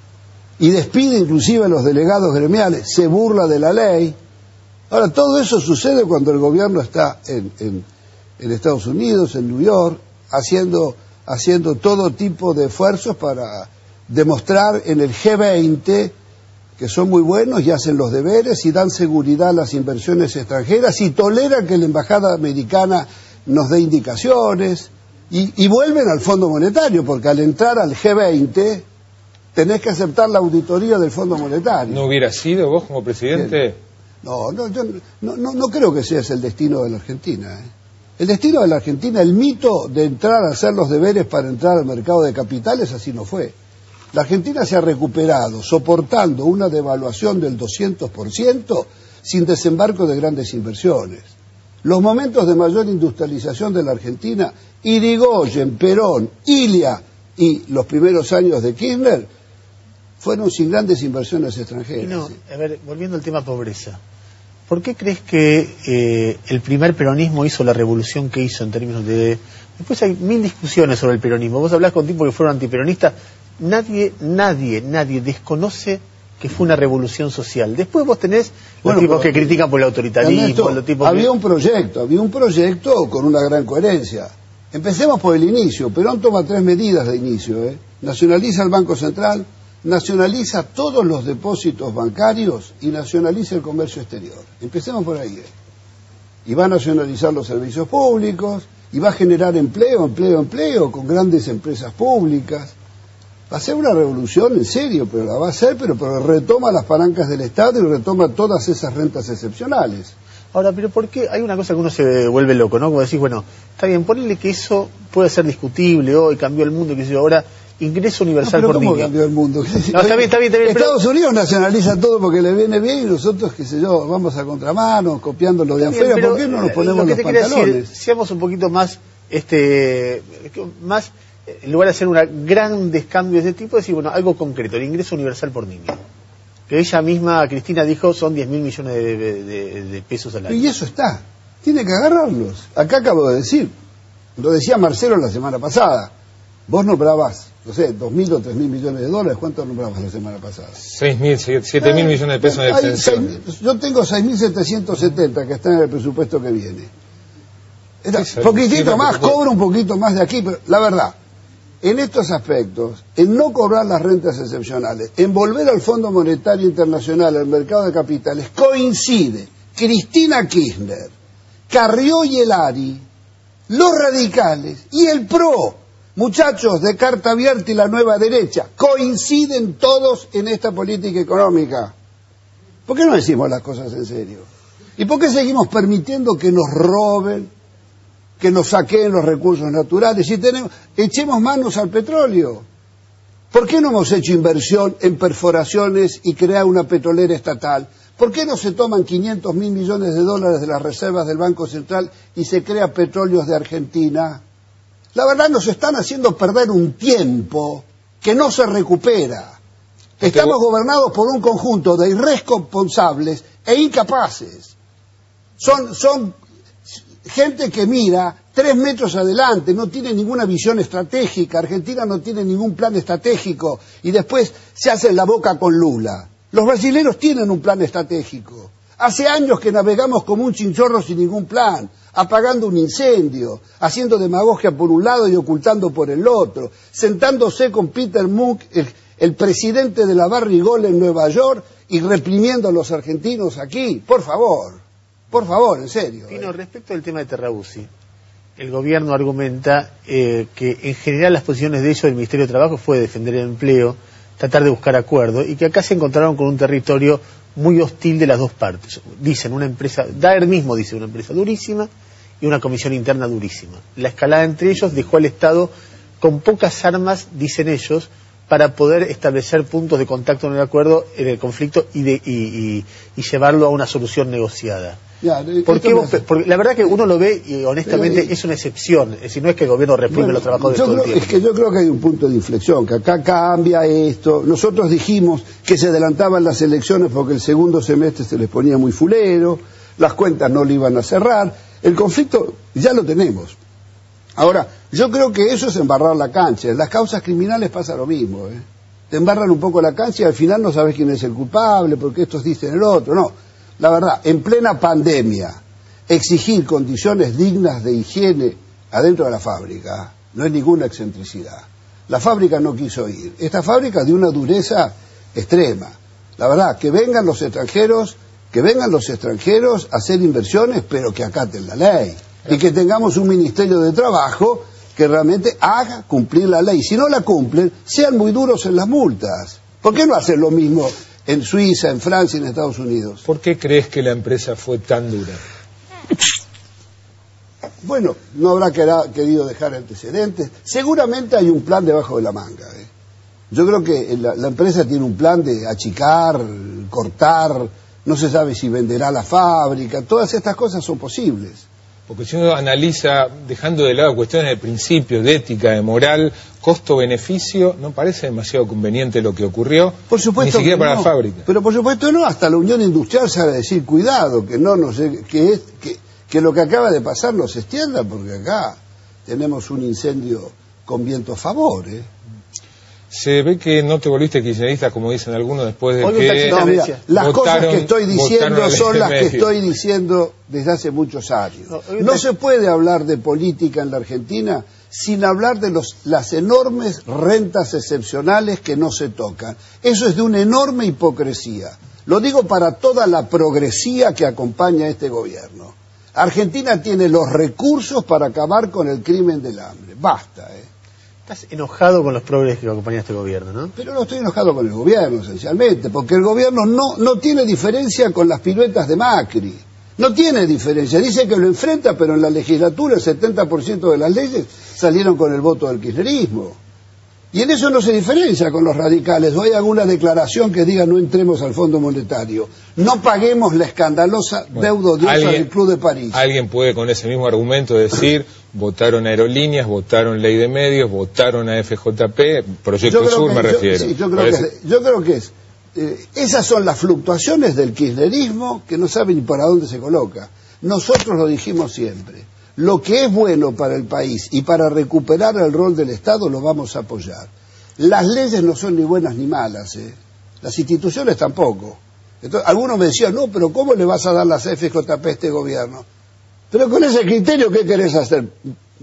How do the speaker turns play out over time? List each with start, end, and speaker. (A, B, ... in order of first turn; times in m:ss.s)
0:00.6-0:04.2 A
0:04.9-0:07.8 A
0:08.4-0:16.1 A
0:16.8-0:28.8 A
0:29.5-0:32.0 A
0:31.9-0:33.8 B
0:34.2-0:37.7 A
0:38.2-0:43.5 A
0:44.1-0:51.3 A
0:51.8-0:59.3 A
1:00.2-1:02.4 A
1:02.0-1:04.0 C
1:04.7-1:21.3 C
1:18.8-1:19.6 A
1:20.2-1:35.5 A
1:36.4-1:42.7 A
1:43.5-1:50.1 A
1:50.5-1:59.1 C
1:58.4-2:07.9 A
1:59.9-2:01.0 C
2:05.8-2:16.0 C
2:16.7-2:20.7 C
2:20.5-2:23.7 A
2:24.4-2:26.1 A
2:26.7-2:30.8 A
2:30.8-2:33.3 B
2:31.8-2:36.9 A
2:38.0-2:41.1 A
2:38.2-2:39.4 B
2:41.8-2:51.1 A
2:51.7-2:53.0 A
2:53.7-3:01.9 A
3:02.9-3:04.4 A
3:05.0-3:07.5 A
3:08.4-3:12.6 A
3:13.5-3:24.4 A
3:25.1-3:29.6 A
3:30.2-3:30.6 B
3:30.2-3:34.7 A
3:35.6-4:06.5 A
4:06.3-4:07.9 C
4:08.6-4:21.9 C
4:22.4-4:35.0 C
4:35.2-4:36.2 A
4:35.6-4:41.4 C
4:37.8-4:38.3 A
4:40.1-4:53.6 A
4:54.4-5:33.2 A
5:33.2-5:35.4 B
5:37.8-5:42.9 A
5:43.5-5:51.6 A
5:52.1-6:01.4 B
6:00.1-6:12.1 A
6:13.1-6:19.5 B
6:16.0-6:17.0 C
6:16.4-6:40.7 A
6:21.7-6:22.2 C
6:41.3-6:43.7 C
6:43.8-6:56.6 A
6:57.3-7:06.2 A
7:04.6-7:05.5 B
7:06.1-7:14.4 B
7:12.8-7:35.8 A
7:36.5-7:38.4 A